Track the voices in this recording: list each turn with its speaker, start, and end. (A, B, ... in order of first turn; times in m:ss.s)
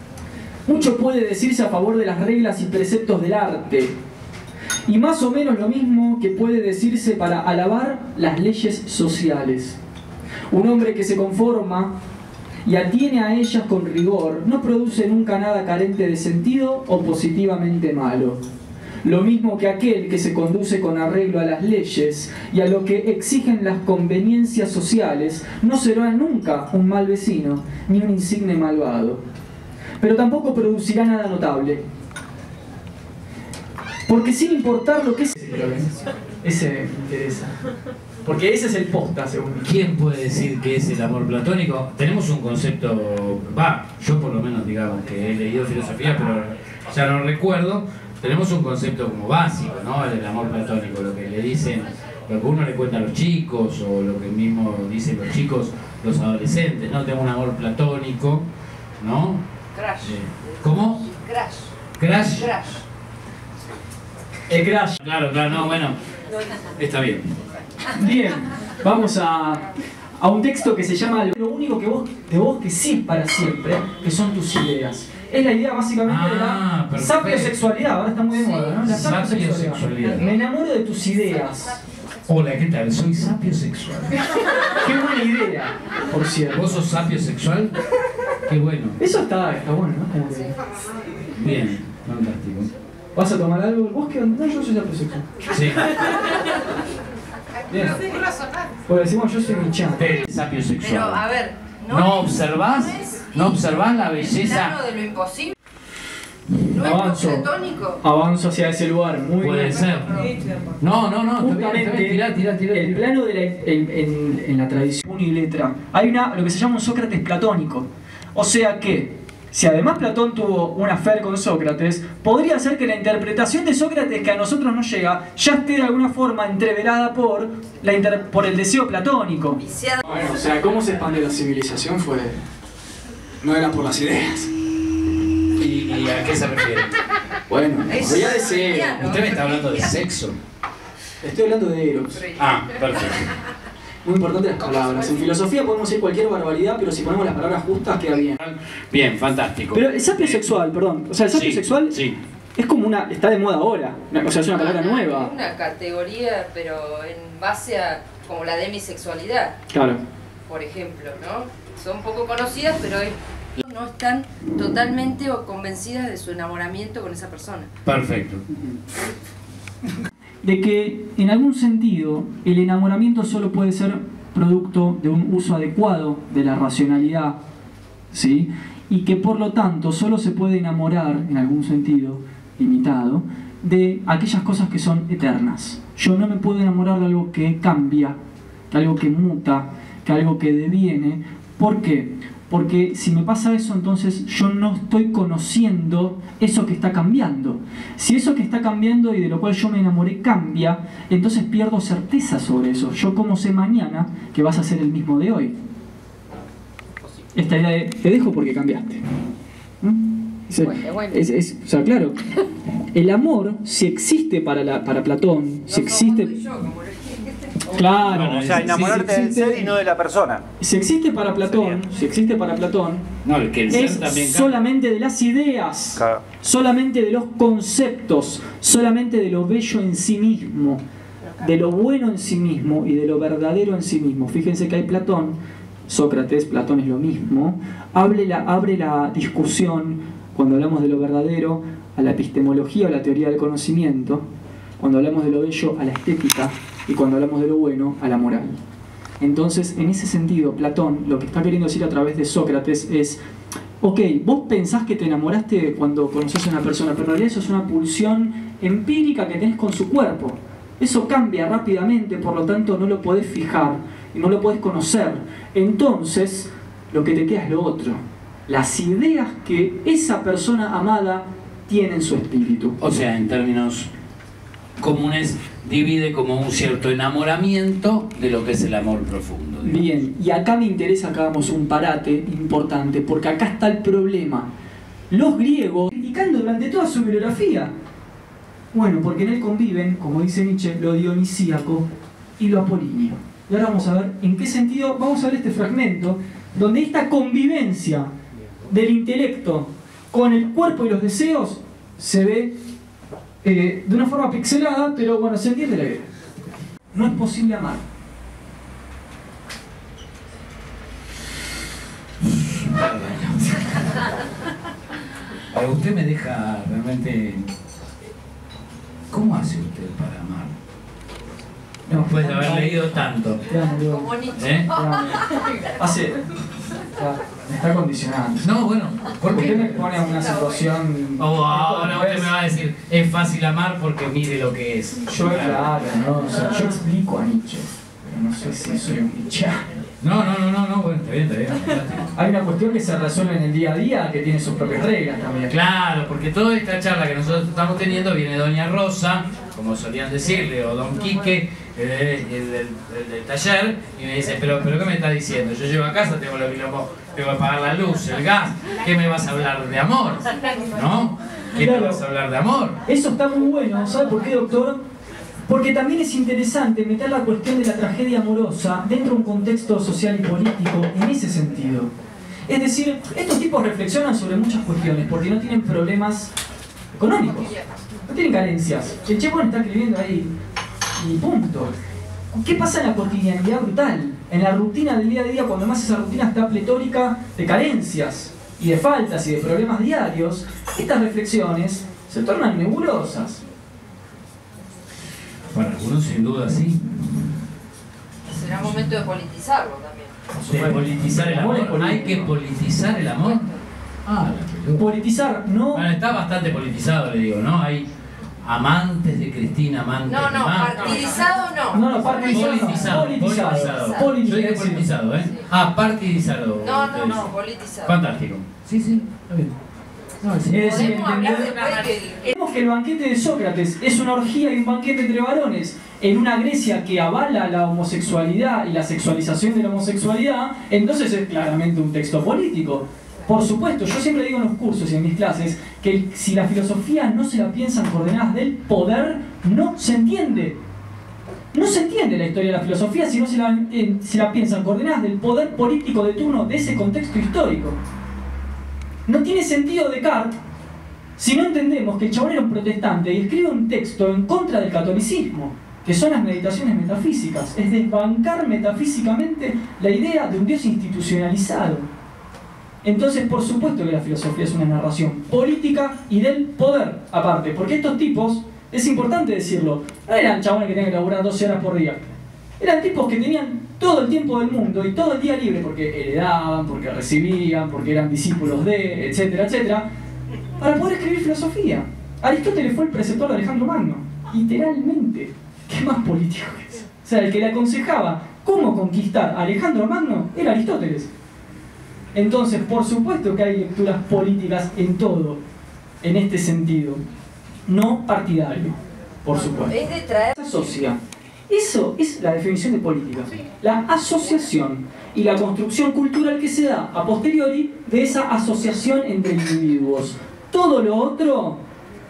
0:00.7-0:04.0 A
0:04.9-0:09.8 A
0:10.5-0:12.0 A
0:12.6-0:18.4 A
0:19.0-0:29.2 A
0:30.0-0:31.8 A
0:34.1-0:37.6 A
0:38.2-0:39.8 A
0:39.6-0:58.5 B
0:59.0-0:59.4 B
0:59.7-1:00.2 C
1:00.0-1:01.1 B
1:01.1-1:01.7 C
1:02.0-1:02.6 B
1:02.3-1:02.8 C
1:04.5-1:05.0 A
1:05.0-1:06.0 B
1:06.8-1:07.3 B
1:08.0-1:09.7 A
1:10.2-1:21.8 A
1:16.0-1:17.6 B
1:18.8-1:20.3 B
1:22.3-1:24.2 B
1:24.8-1:26.7 A
1:26.5-1:27.8 B
1:28.5-1:29.0 B
1:29.0-1:30.5 A
1:31.3-1:32.7 B
1:33.2-1:35.4 A
1:35.5-1:35.9 B
1:37.7-1:38.0 A
1:38.9-1:40.1 A
1:39.9-1:41.2 B
1:40.8-1:43.5 C
1:41.9-1:44.8 B
1:44.0-1:45.5 C
1:46.7-1:47.5 A
1:46.7-1:48.0 C
1:48.0-1:49.8 A
1:49.4-1:50.2 B
1:50.0-1:50.8 C
1:50.8-1:53.0 B
1:51.4-2:12.4 A
2:09.6-2:10.0 C
2:13.4-2:14.5 A
2:15.6-2:16.9 B
2:17.5-2:19.0 A
2:17.9-2:19.9 C
2:18.0-2:18.3 B
2:18.8-2:20.4 B
2:21.2-2:22.3 A
2:22.2-2:22.6 C
2:22.4-2:23.3 B
2:24.0-2:28.4 A
2:28.4-2:30.4 B
2:29.7-2:32.0 A
2:31.3-2:32.2 B
2:32.6-2:35.3 A
2:34.4-2:39.6 C
2:39.7-2:40.0 A
2:40.5-2:47.7 C
2:47.9-2:48.4 B
2:50.4-2:57.4 A
2:58.1-3:08.2 A
3:08.7-3:25.5 A
3:27.4-3:29.0 A
3:29.8-3:32.2 A
3:30.6-3:31.2 C
3:32.9-3:36.3 A
3:35.7-3:38.0 C
3:37.7-3:39.8 A
3:38.0-3:39.2 B
3:38.1-3:40.4 D
3:40.6-3:43.1 A
3:41.4-3:41.8 D
3:43.2-3:44.6 B
3:43.7-3:50.8 A
3:51.4-4:04.3 A
4:04.8-4:08.6 A
4:09.2-4:13.2 A
4:13.8-4:32.8 A
4:32.8-4:33.9 B
4:34.8-4:39.9 B
4:39.6-4:44.5 A
4:45.1-4:47.7 A
4:48.7-4:51.9 A
4:52.4-4:58.1 A
4:58.7-5:02.6 A
5:03.4-5:06.1 A
5:06.9-5:07.8 A
5:12.2-5:14.0 B
5:15.5-5:17.5 B
5:19.1-5:20.5 B
5:21.9-5:24.2 A
5:21.9-5:23.4 B
5:23.8-5:25.2 C
5:24.4-5:24.7 B
5:24.7-5:25.2 A
5:25.8-5:26.2 A
5:27.0-5:28.5 A
5:28.4-5:30.0 B
5:29.3-5:32.3 A
5:30.2-5:30.5 C
5:31.2-5:35.9 B
5:35.1-5:39.7 A
5:40.0-5:42.1 B
5:42.2-5:45.5 A
5:45.5-6:02.8 B
6:01.6-6:02.0 A
6:02.9-6:04.8 A
6:05.5-6:11.9 A
6:12.5-6:16.3 A
6:16.9-6:17.5 A
6:18.1-6:20.3 A
6:21.0-6:21.7 A
6:22.3-6:33.4 A
6:35.5-6:37.3 B
6:38.3-6:40.2 C
6:40.4-6:42.3 A
6:40.5-6:43.5 B
6:44.0-6:44.8 B
6:44.8-6:45.9 A
6:45.7-6:47.9 B
6:48.4-6:51.2 B
6:50.1-6:54.1 C
6:51.7-6:54.9 A
6:52.0-6:57.3 B
6:56.6-6:58.0 C
6:57.8-6:58.5 B
6:58.6-6:59.1 C
6:59.3-6:59.5 B
7:00.2-7:00.8 B
7:00.4-7:02.4 C
7:00.5-7:20.6 A
7:21.5-7:27.8 A
7:29.1-7:30.4 A
7:31.2-7:41.9 A
7:42.8-7:52.0 A
7:52.6-7:59.9 A
8:00.6-8:11.1 A
8:12.1-8:15.4 A
8:16.0-8:17.0 A
8:17.7-8:31.6 A
8:19.5-8:20.3 C